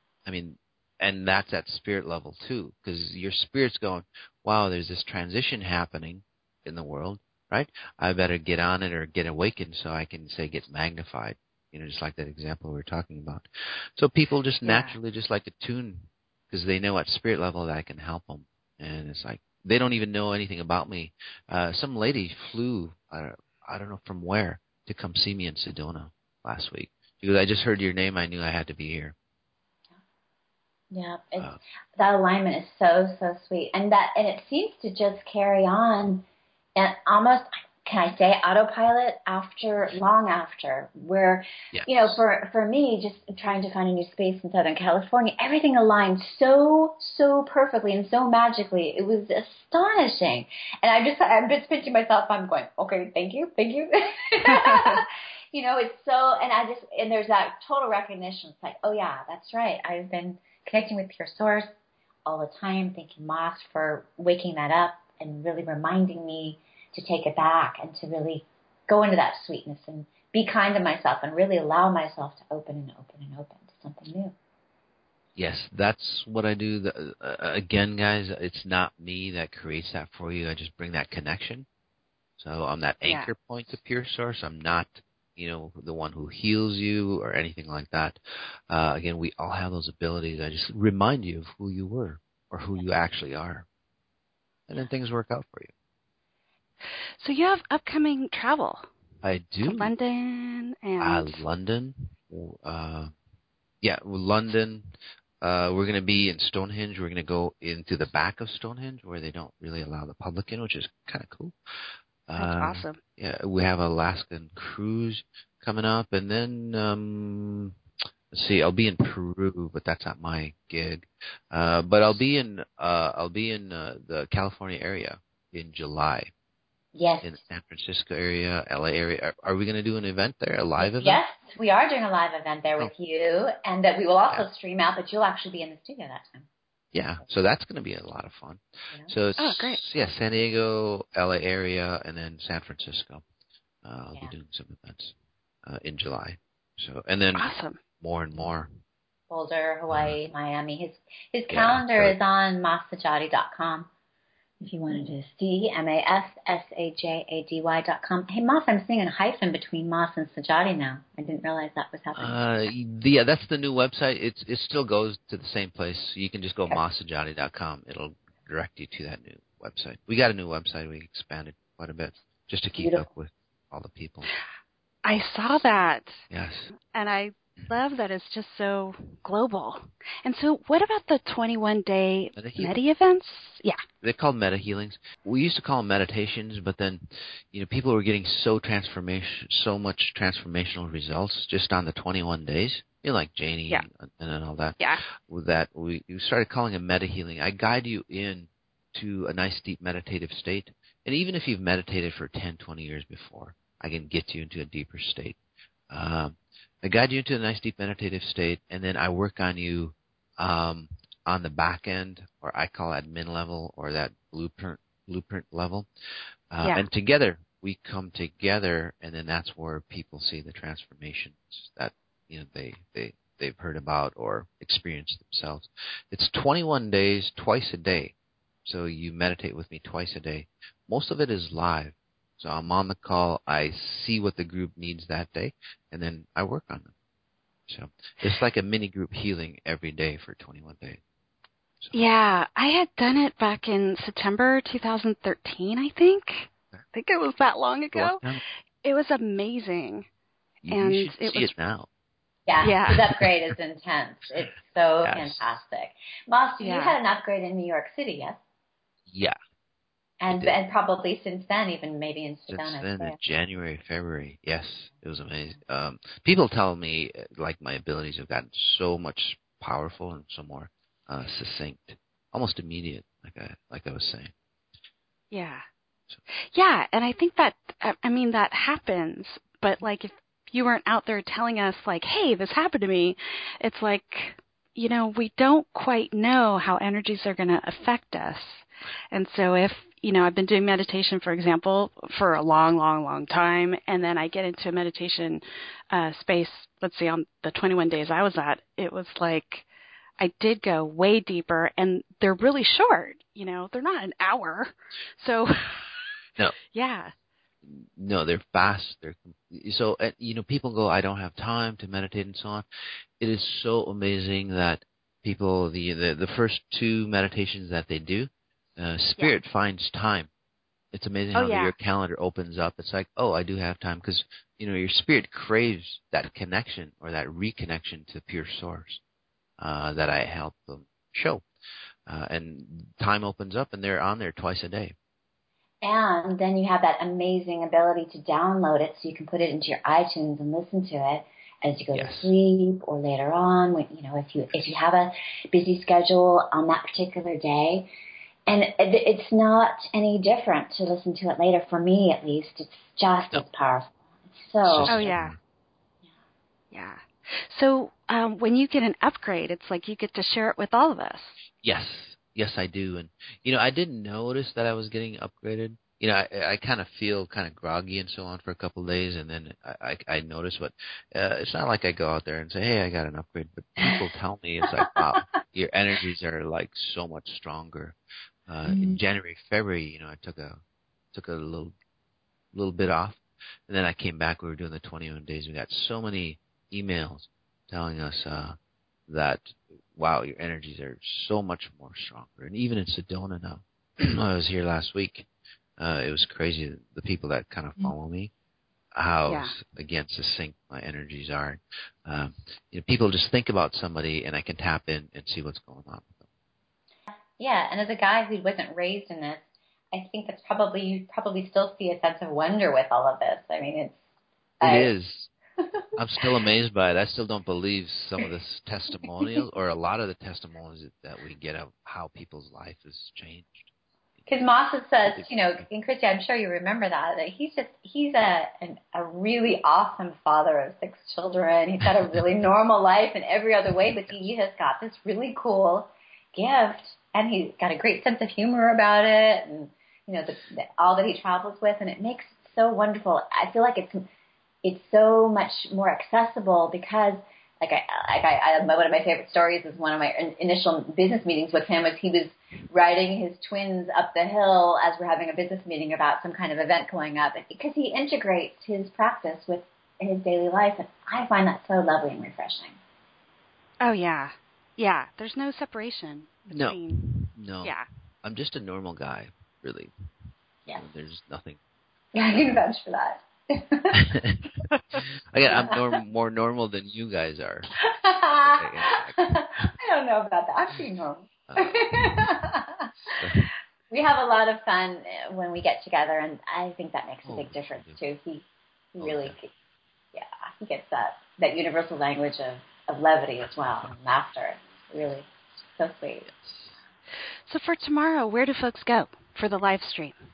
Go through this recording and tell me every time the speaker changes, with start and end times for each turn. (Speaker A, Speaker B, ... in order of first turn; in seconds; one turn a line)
Speaker A: 0.2-29.1
Speaker B: 14.7-14.9
Speaker B: 30.9-36.2
Speaker B: 36.8-61.7
Speaker A: 41.7-42.2
Speaker C: 54.5-55.0
Speaker B: 62.2-74.3
Speaker A: 75.3-81.7
Speaker A: 82.4-88.2
Speaker A: 88.7-93.7
Speaker A: 94.7-95.7
Speaker C: 97.2-98.9
Speaker A: 99.2-99.9
Speaker C: 99.6-101.4
Speaker A: 101.0-103.1
Speaker A: 103.8-111.5
Speaker A: 112.3-117.8
Speaker C: 112.4-113.0
Speaker A: 118.3-126.3
Speaker B: 126.9-127.4
Speaker A: 127.2-131.2
Speaker B: 130.8-136.5
Speaker A: 136.9-143.2
Speaker C: 139.4-139.8
Speaker A: 143.8-145.1
Speaker A: 145.6-147.5
Speaker C: 147.3-147.8
Speaker A: 148.0-148.7
Speaker B: 149.3-153.9
Speaker A: 151.5-152.2
Speaker B: 154.6-162.5
Speaker A: 162.1-174.3
Speaker B: 172.8-173.1
Speaker C: 175.0-176.2
Speaker A: 176.3-176.7
Speaker C: 176.7-183.8
Speaker A: 182.3-182.7
Speaker A: 184.0-205.4
Speaker A: 205.9-215.9
Speaker A: 216.5-228.1
Speaker A: 228.6-236.9
Speaker A: 237.7-241.0
Speaker C: 241.9-248.2
Speaker A: 247.9-248.4
Speaker C: 248.8-250.0
Speaker A: 250.6-251.9
Speaker C: 250.7-251.5
Speaker B: 252.5-258.4
Speaker C: 252.6-253.1
Speaker A: 255.0-255.4
Speaker C: 256.6-257.0
Speaker A: 259.1-259.3
Speaker B: 260.2-263.2
Speaker A: 260.3-260.6
Speaker A: 262.5-274.3
Speaker C: 275.3-275.6
Speaker C: 276.5-299.6
Speaker C: 300.2-306.2
Speaker C: 306.7-307.1
Speaker A: 307.6-312.6
Speaker A: 313.2-320.3
Speaker A: 320.9-329.0
Speaker C: 321.3-321.8
Speaker A: 329.6-331.4
Speaker A: 332.1-334.9
Speaker B: 335.8-347.9
Speaker A: 341.9-342.3
Speaker B: 348.5-355.1
Speaker A: 354.6-355.4
Speaker C: 354.9-355.3
Speaker C: 356.7-361.4
Speaker A: 361.6-378.0
Speaker A: 378.5-380.6
Speaker B: 378.7-379.0
Speaker A: 381.1-381.7
Speaker A: 382.5-388.6
Speaker A: 389.1-395.3
Speaker A: 395.8-398.3
Speaker A: 398.9-406.2
Speaker C: 399.3-399.6
Speaker B: 407.4-414.0
Speaker B: 414.6-414.9
Speaker A: 414.6-415.3
Speaker A: 415.9-423.7
Speaker B: 424.3-444.0
Speaker A: 425.1-425.3
Speaker B: 444.6-462.8
Speaker C: 463.8-467.9
Speaker A: 466.5-469.9
Speaker A: 470.8-471.6
Speaker B: 472.1-474.0
Speaker A: 473.9-477.8
Speaker C: 474.7-475.0
Speaker B: 475.5-475.8
Speaker B: 477.8-483.3
Speaker A: 478.4-479.7
Speaker A: 481.5-482.3
Speaker A: 483.1-483.5
Speaker B: 483.9-489.5
Speaker A: 487.2-488.0
Speaker A: 489.0-489.4
Speaker B: 490.1-496.3
Speaker A: 496.3-496.7
Speaker C: 497.5-500.2